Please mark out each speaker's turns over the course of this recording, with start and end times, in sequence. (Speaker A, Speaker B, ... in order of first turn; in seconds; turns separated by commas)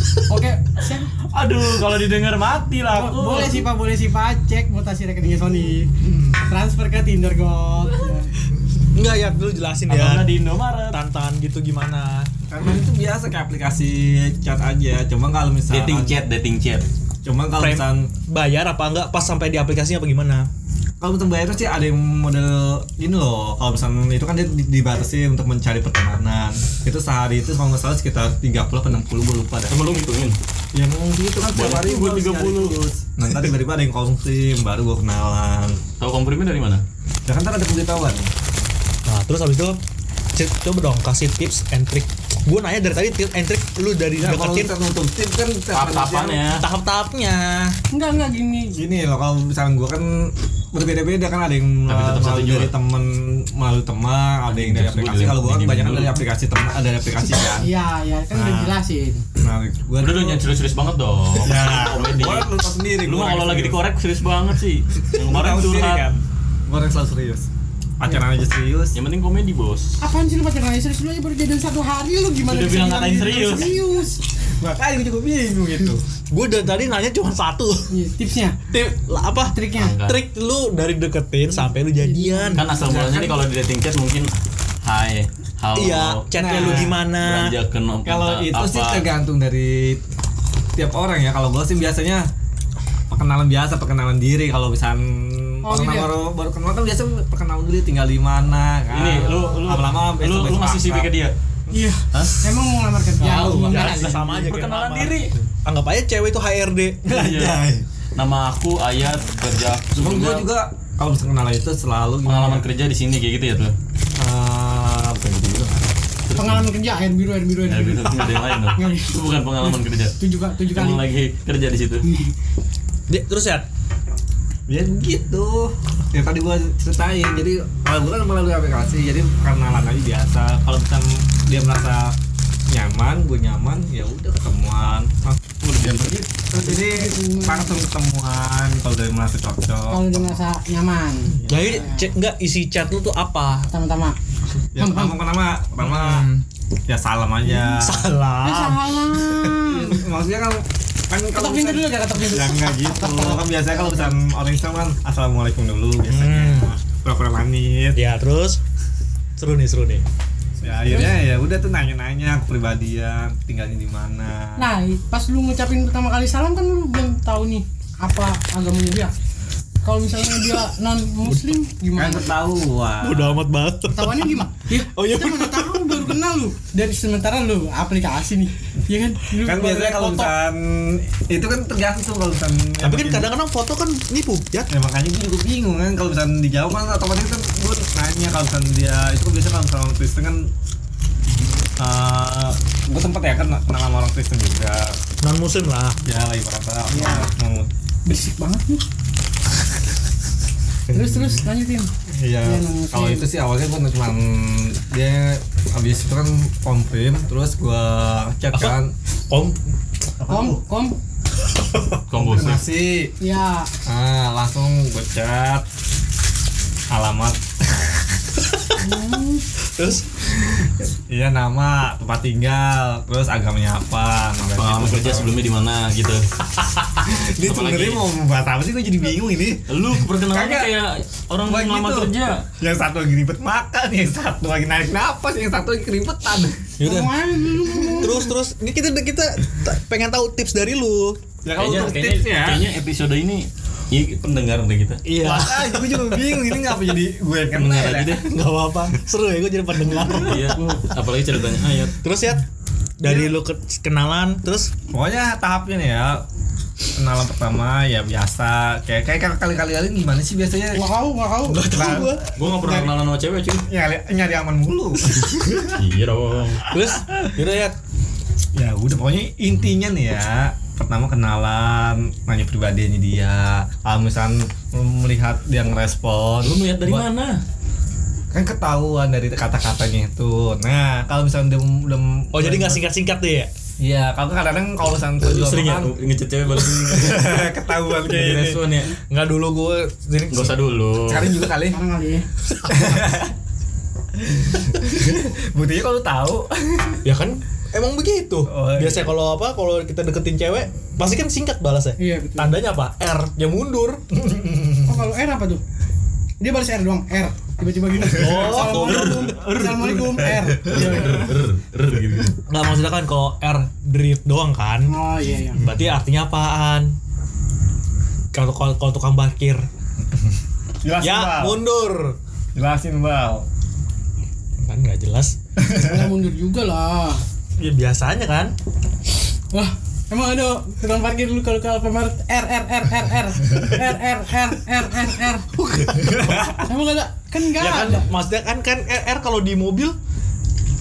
Speaker A: 0.2-1.1, Speaker B: 1.2-3.7, Speaker A: 2.9-8.3, Speaker C: 8.9-10.3, Speaker B: 9.9-11.0, Speaker C: 10.9-12.3, Speaker D: 12.5-16.1, Speaker B: 15.7-16.9, Speaker D: 17.2-18.1, Speaker C: 17.6-20.5, Speaker D: 21.0-29.7, Speaker B: 29.7-30.4, Speaker D: 30.7-35.8, Speaker B: 31.4-32.8, Speaker B: 36.0-36.8, Speaker D: 37.3-38.3, Speaker C: 39.1-39.8, Speaker C: 40.4-44.7, Speaker D: 44.2-46.4, Speaker B: 45.7-46.6, Speaker C: 46.5-47.7, Speaker A: 47.9-48.8, Speaker D: 48.7-57.7, Speaker B: 51.9-52.7, Speaker B: 54.5-56.2, Speaker A: 57.5-59.2, Speaker C: 58.3-58.7, Speaker D: 59.4-60.4, Speaker B: 60.0-62.5, Speaker D: 61.4-63.8, Speaker B: 63.0-66.0, Speaker D: 65.1-67.5, Speaker D: 68.0-69.0, Speaker B: 68.9-70.0, Speaker A: 70.0-74.2, Speaker B: 72.5-73.8, Speaker D: 74.5-76.0, Speaker C: 76.3-77.9, Speaker A: 77.9-78.6, Speaker C: 78.7-82.7, Speaker A: 79.5-80.0, Speaker B: 79.7-80.2, Speaker A: 82.0-82.7, Speaker B: 82.5-84.3, Speaker D: 82.8-83.5, Speaker B: 84.8-89.1, Speaker C: 85.7-87.5, Speaker D: 86.3-86.9, Speaker D: 88.0-90.0, Speaker D: 90.7-92.3, Speaker D: 93.1-101.1, Speaker A: 95.6-96.1, Speaker B: 98.9-101.3, Speaker A: 101.7-104.1, Speaker B: 102.1-102.4, Speaker D: 103.2-104.0, Speaker B: 103.2-105.3, Speaker C: 103.6-107.1, Speaker D: 107.0-107.8, Speaker B: 107.1-107.6, Speaker B: 108.1-110.5, Speaker D: 109.9-112.6, Speaker B: 112.2-113.8, Speaker D: 114.2-115.8, Speaker B: 116.3-116.7, Speaker A: 116.3-119.2, Speaker B: 117.7-120.2, Speaker A: 119.7-121.0, Speaker B: 120.7-122.1, Speaker A: 122.0-122.3, Speaker C: 123.1-123.7, Speaker D: 124.7-132.2, Speaker D: 132.7-140.3, Speaker B: 135.6-136.2, Speaker A: 136.5-137.8, Speaker A: 139.9-142.0, Speaker D: 141.4-141.8, Speaker C: 141.5-143.7, Speaker A: 143.7-144.2, Speaker D: 144.7-146.2, Speaker A: 144.8-145.2, Speaker C: 145.8-146.4, Speaker D: 146.9-148.1, Speaker C: 147.6-148.9, Speaker A: 148.4-150.0, Speaker D: 149.6-158.0, Speaker A: 151.3-154.1, Speaker C: 156.1-156.7, Speaker C: 157.9-158.6, Speaker C: 159.4-160.0, Speaker D: 160.6-164.7, Speaker A: 160.8-161.1, Speaker A: 164.6-169.1, Speaker A: 169.8-172.3, Speaker D: 171.9-173.4, Speaker C: 173.0-176.1, Speaker A: 173.9-180.2, Speaker D: 179.3-183.3, Speaker C: 179.8-180.3, Speaker C: 182.8-184.7, Speaker D: 184.7-190.5, Speaker D: 191.8-195.0, Speaker C: 195.2-196.0, Speaker D: 196.0-197.7, Speaker A: 196.9-197.3, Speaker A: 198.1-198.8, Speaker A: 200.9-201.9, Speaker D: 200.9-201.3, Speaker D: 202.1-208.9, Speaker A: 202.4-203.2, Speaker C: 208.5-208.8, Speaker C: 209.3-209.6, Speaker C: 210.2-210.6, Speaker A: 210.3-210.9, Speaker C: 211.5-212.0, Speaker B: 212.1-212.7, Speaker D: 212.1-213.1, Speaker A: 213.2-213.7, Speaker D: 213.8-215.7, Speaker D: 216.9-218.2, Speaker A: 218.8-219.4, Speaker C: 219.8-220.1, Speaker D: 220.4-225.3, Speaker B: 224.5-226.3, Speaker D: 227.0-230.7, Speaker B: 227.4-228.1, Speaker B: 229.7-232.4, Speaker D: 231.4-236.7, Speaker C: 236.8-237.1, Speaker A: 236.8-238.2, Speaker C: 238.0-241.2, Speaker D: 241.4-242.6, Speaker B: 241.6-245.0, Speaker C: 245.0-246.6, Speaker D: 245.1-248.2, Speaker B: 247.5-248.2, Speaker C: 248.3-250.8, Speaker B: 250.1-252.0, Speaker C: 252.0-252.4, Speaker C: 253.0-254.7, Speaker D: 254.9-256.2, Speaker D: 256.9-260.9, Speaker A: 260.7-261.7, Speaker C: 261.5-262.2, Speaker D: 261.6-262.9, Speaker B: 262.4-263.6, Speaker D: 263.7-265.7, Speaker B: 265.5-266.6, Speaker C: 266.7-267.8, Speaker D: 268.6-277.1, Speaker B: 276.4-277.4, Speaker D: 278.3-282.9, Speaker C: 282.3-283.5, Speaker D: 283.8-285.9, Speaker B: 285.2-288.9, Speaker D: 286.5-288.6, Speaker C: 288.3-288.6, Speaker C: 289.1-290.6, Speaker B: 290.3-291.5, Speaker D: 291.0-291.8, Speaker A: 291.7-292.2, Speaker C: 292.6-292.9, Speaker D: 292.6-293.3, Speaker D: 294.2-297.0, Speaker C: 297.0-304.0, Speaker D: 298.4-299.1, Speaker A: 302.0-302.5, Speaker D: 304.3-304.8, Speaker A: 304.8-305.6, Speaker A: 306.4-311.3, Speaker C: 308.1-309.3, Speaker B: 308.5-312.3, Speaker C: 312.5-314.9, Speaker A: 314.9-315.6, Speaker C: 315.5-316.9, Speaker C: 318.3-319.7, Speaker D: 320.8-321.6, Speaker C: 321.0-322.2, Speaker D: 322.5-323.4, Speaker C: 324.6-325.4, Speaker D: 325.6-325.9, Speaker A: 325.7-327.2, Speaker C: 327.6-328.5, Speaker A: 329.5-335.5, Speaker D: 335.8-336.6, Speaker A: 336.6-338.1, Speaker C: 337.6-339.9